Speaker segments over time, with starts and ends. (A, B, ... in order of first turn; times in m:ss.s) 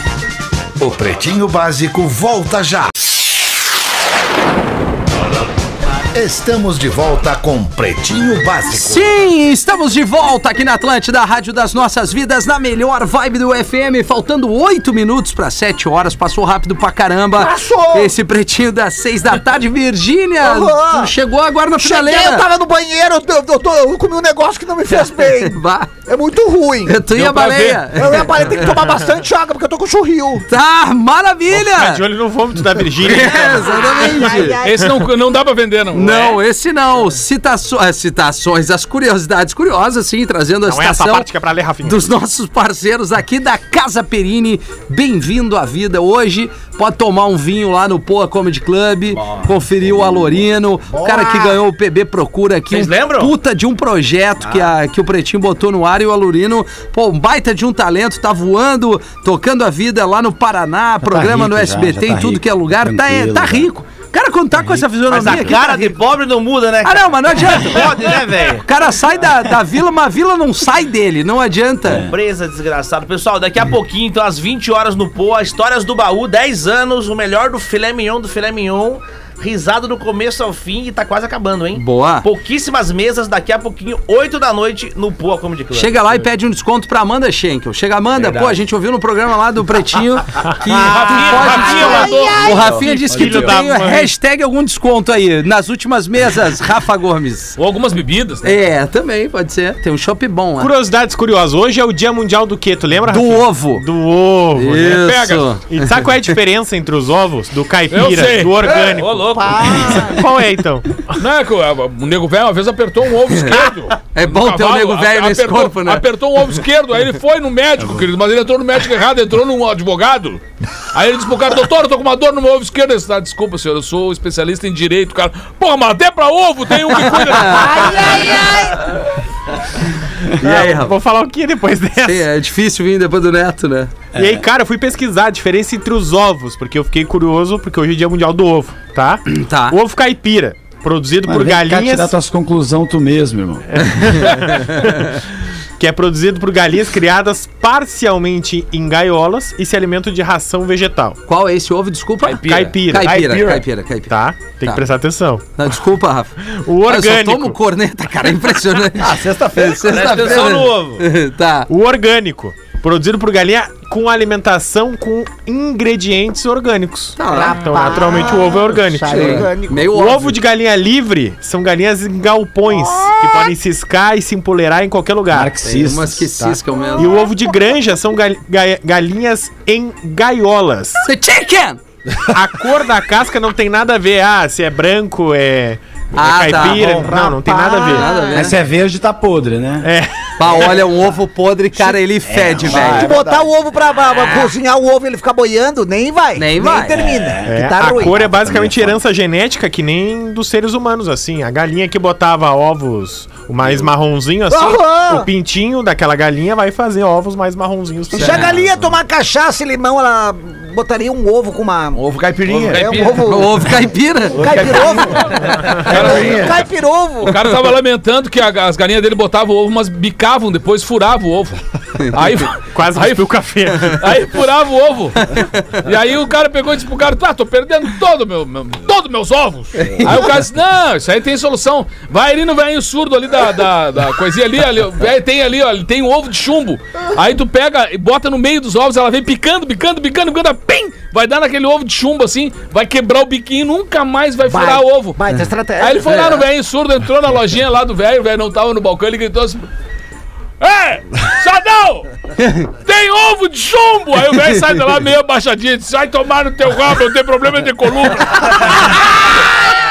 0:00.8-0:02.9 A
0:06.1-0:09.1 A
0:08.7-0:22.5 B
0:17.4-0:18.1 C
0:20.4-0:21.1 C
0:21.8-0:27.0 C
0:24.9-0:25.9 B
0:26.9-0:28.8 B
0:27.1-0:27.9 D
0:27.9-0:30.4 C
0:30.5-0:32.0 B
0:31.5-0:34.3 E
0:33.0-0:34.6 B
0:33.6-0:34.9 C
0:34.6-0:36.4 D
0:35.9-0:41.3 B
0:40.7-0:42.1 E
0:41.8-1:05.9 B
0:49.1-0:49.5 F
0:50.9-0:51.6 C
0:52.7-0:53.3 F
0:54.4-0:54.7 F
1:01.0-1:03.7 G
1:05.1-1:08.7 F
1:06.8-1:12.0 B
1:11.9-1:12.1 G
1:12.1-1:26.2 F
1:21.7-1:22.3 B
1:25.7-1:37.6 B
1:28.1-1:28.6 F
1:30.7-1:32.7 C
1:30.7-1:33.2 D
1:32.8-1:34.1 E
1:37.6-1:38.6 D
1:38.4-1:40.7 B
1:40.6-1:51.2 E
1:43.1-1:43.8 B
1:44.6-1:46.0 B
1:47.9-1:48.8 D
1:48.8-1:50.1 F
1:49.3-1:50.2 C
1:51.2-2:00.4 D
1:53.3-1:53.6 B
1:54.1-1:56.0 B
2:00.9-2:08.2 D
2:07.0-2:08.1 B
2:07.7-2:08.9 C
2:10.3-2:12.3 E
2:10.4-2:10.9 B
2:12.0-2:13.9 B
2:14.1-2:14.4 G
2:14.2-2:22.1 E
2:19.3-2:19.8 B
2:21.2-2:24.3 G
2:23.8-2:25.2 E
2:25.8-2:31.2 E
2:31.3-2:34.8 B
2:32.3-2:32.7 F
2:32.3-2:33.3 E
2:33.0-2:33.6 H
2:34.1-2:35.4 E
2:35.6-2:41.7 B
2:36.5-2:37.6 E
2:39.0-2:40.5 H
2:39.8-2:41.0 F
2:41.7-2:55.5 E
2:47.2-2:47.9 B
2:47.3-2:49.9 C
2:49.1-2:50.4 B
2:52.7-2:53.5 C
2:55.3-2:56.6 G
2:55.6-2:57.3 B
2:57.0-2:57.2 C
2:57.0-3:01.0 E
3:01.0-3:01.8 B
3:02.3-3:08.2 E
3:06.1-3:07.0 B
3:06.7-3:08.5 C
3:07.9-3:08.6 B
3:08.3-3:09.9 G
3:09.8-3:10.8 E
3:10.4-3:13.1 B
3:12.2-3:13.1 G
3:12.7-3:13.5 H
3:12.7-3:18.2 C
3:16.4-3:17.0 B
3:16.9-3:19.0 G
3:17.4-3:28.6 E
3:24.5-3:25.3 C
3:28.1-3:32.0 C
3:28.2-3:28.4 B
3:32.0-3:33.0 H
3:32.5-3:33.2 F
3:32.7-3:37.5 C
3:33.3-3:34.4 B
3:34.3-3:36.6 H
3:35.8-3:36.7 D
3:37.2-4:05.2 D
3:42.7-3:44.2 E
3:45.4-3:45.6 B
3:49.9-3:50.3 B
4:04.4-4:06.2 C
4:05.8-4:09.6 D
4:06.0-4:06.4 B
4:10.6-4:12.1 D
4:12.4-4:12.7 B
4:12.7-4:19.0 D